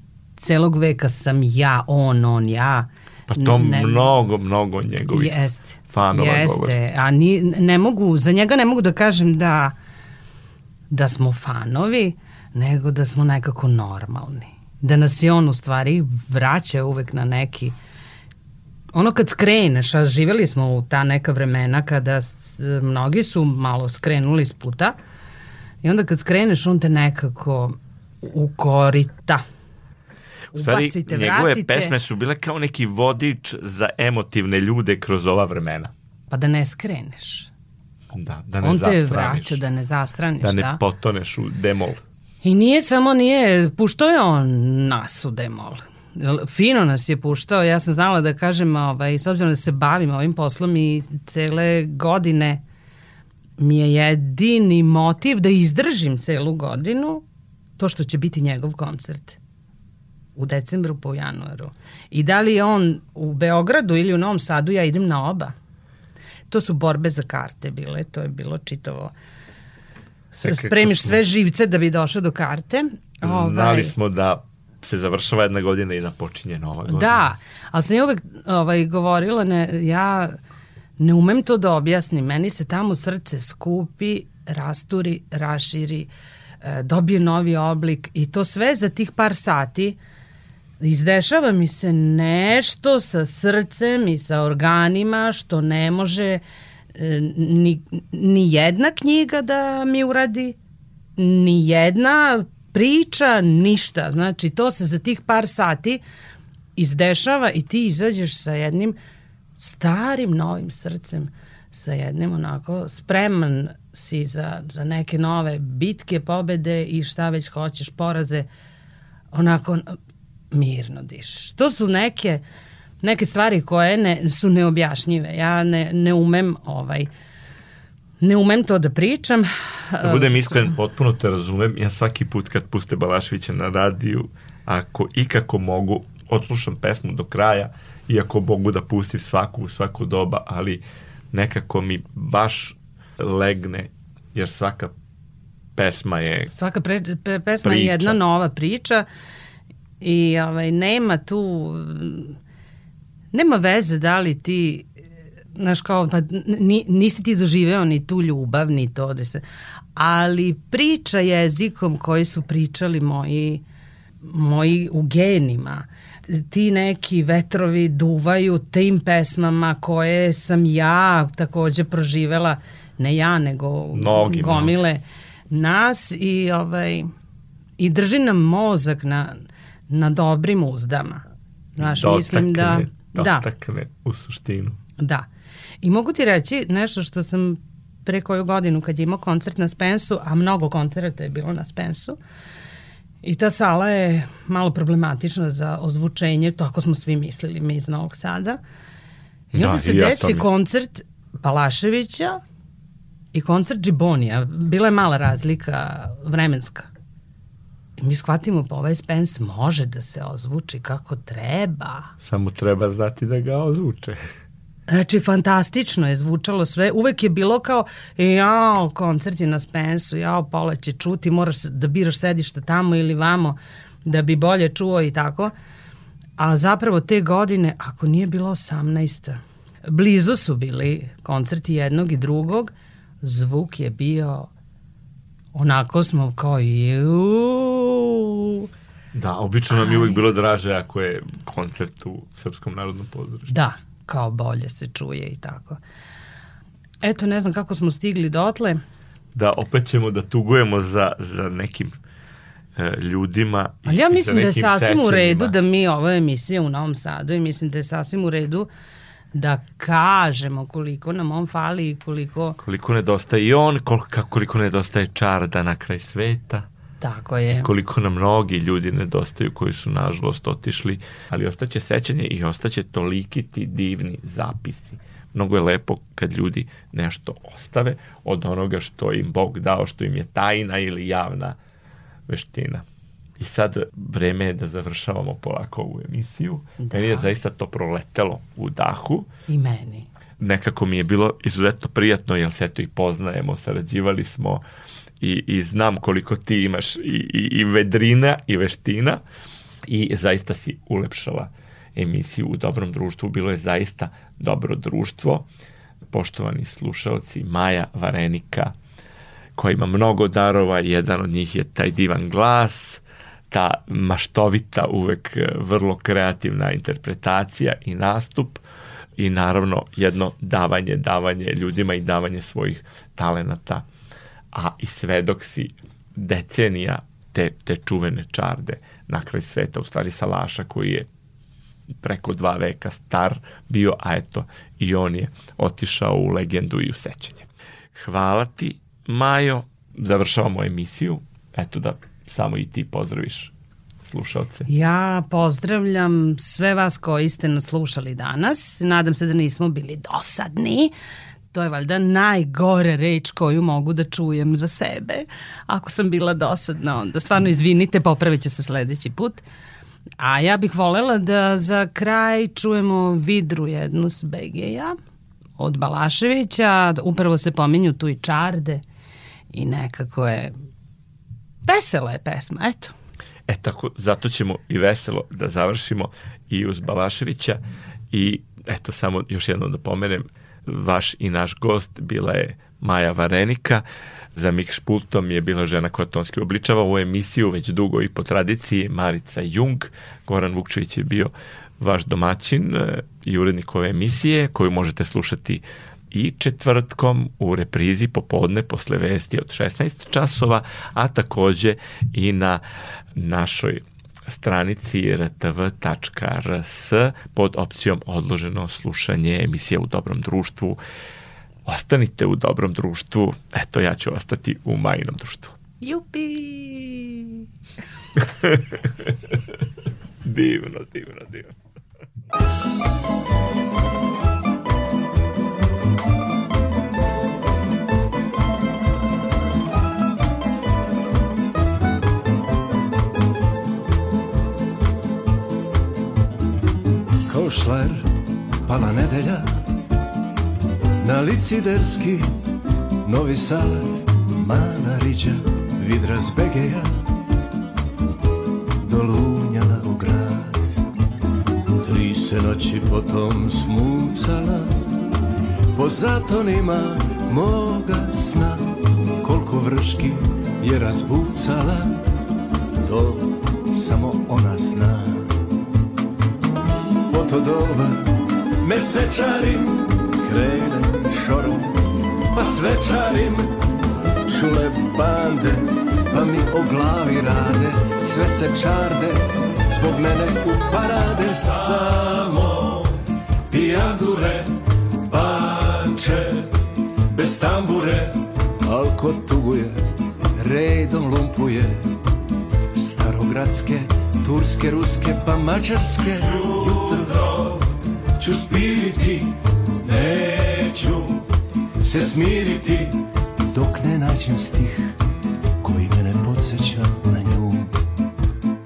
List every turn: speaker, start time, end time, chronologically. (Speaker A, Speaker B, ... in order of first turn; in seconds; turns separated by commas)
Speaker A: 0.4-4.1, Speaker B: 3.3-5.4, Speaker A: 5.1-9.8, Speaker B: 5.9-6.8, Speaker A: 10.9-17.8, Speaker A: 18.9-24.9, Speaker A: 25.8-29.4, Speaker A: 30.5-31.9, Speaker B: 30.5-35.9, Speaker A: 36.3-37.5, Speaker B: 38.1-39.6, Speaker A: 38.6-40.8, Speaker B: 40.4-42.0, Speaker A: 42.4-52.6, Speaker A: 53.6-57.2, Speaker A: 57.8-59.4, Speaker A: 60.4-65.5, Speaker A: 66.5-69.1, Speaker A: 70.3-73.9, Speaker B: 70.4-71.2, Speaker B: 73.2-77.3, Speaker A: 76.9-80.4, Speaker A: 81.0-86.1, Speaker A: 86.6-90.0, Speaker A: 90.8-96.4, Speaker A: 96.9-100.6, Speaker A: 101.2-106.0, Speaker A: 106.8-109.0, Speaker A: 109.6-118.5, Speaker A: 119.3-120.0, Speaker A: 120.5-122.4, Speaker A: 123.0-127.1, Speaker A: 128.2-130.7, Speaker B: 130.0-144.9, Speaker B: 145.8-146.5, Speaker A: 146.5-149.1, Speaker B: 147.6-148.2, Speaker A: 150.0-152.3, Speaker A: 153.3-154.9, Speaker A: 155.6-159.4, Speaker A: 159.9-163.6, Speaker A: 164.2-177.1, Speaker B: 173.9-174.8, Speaker A: 177.8-179.4, Speaker A: 179.9-181.2, Speaker A: 181.8-183.4, Speaker B: 181.8-184.8, Speaker A: 185.0-185.2, Speaker A: 185.8-192.2, Speaker A: 193.2-198.6, Speaker B: 199.5-200.5, Speaker A: 199.5-202.4, Speaker A: 203.3-206.9, Speaker A: 208.0-212.1, Speaker B: 212.2-214.2, Speaker A: 214.9-225.5, Speaker A: 226.4-234.5, Speaker A: 235.5-238.7, Speaker B: 239.1-243.6, Speaker A: 239.7-240.2, Speaker A: 243.5-245.8, Speaker A: 247.0-248.8, Speaker B: 249.3-252.0, Speaker B: 252.8-255.6, Speaker A: 253.8-258.7, Speaker A: 259.3-262.6, Speaker B: 262.6-266.7, Speaker A: 267.0-267.7, Speaker B: 267.5-281.6, Speaker B: 282.3-282.8, Speaker B: 283.4-289.3, Speaker A: 286.8-287.3, Speaker A: 289.5-290.1, Speaker B: 290.4-294.6, Speaker B: 295.2-299.2, Speaker B: 299.9-305.5, Speaker B: 306.1-308.7, Speaker B: 309.5-318.6, Speaker B: 319.2-323.9, Speaker B: 324.5-331.1, Speaker B: 332.0-343.5, Speaker B: 344.0-344.7, Speaker A: 344.7-350.9, Speaker A: 351.5-359.4, Speaker A: 360.2-364.9, Speaker A: 365.6-368.8, Speaker A: 369.5-370.5, Speaker A: 371.6-372.9, Speaker B: 373.5-402.6, Speaker B: 403.1-410.8, Speaker B: 411.6-415.6, Speaker A: 415.8-417.4, Speaker B: 418.2-419.3, Speaker B: 420.2-421.5, Speaker C: 437.3-438.1, Speaker C: 438.6-439.5, Speaker C: 441.0-442.3, Speaker C: 443.0-446.9, Speaker C: 448.8-450.8, Speaker C: 451.8-454.8, Speaker C: 455.7-461.9, Speaker C: 462.8-465.3, Speaker C: 467.1-473.6, Speaker C: 474.2-489.9, Speaker C: 490.4-491.9, Speaker C: 492.7-497.6, Speaker C: 498.2-501.2, Speaker C: 501.8-505.0, Speaker C: 505.6-507.8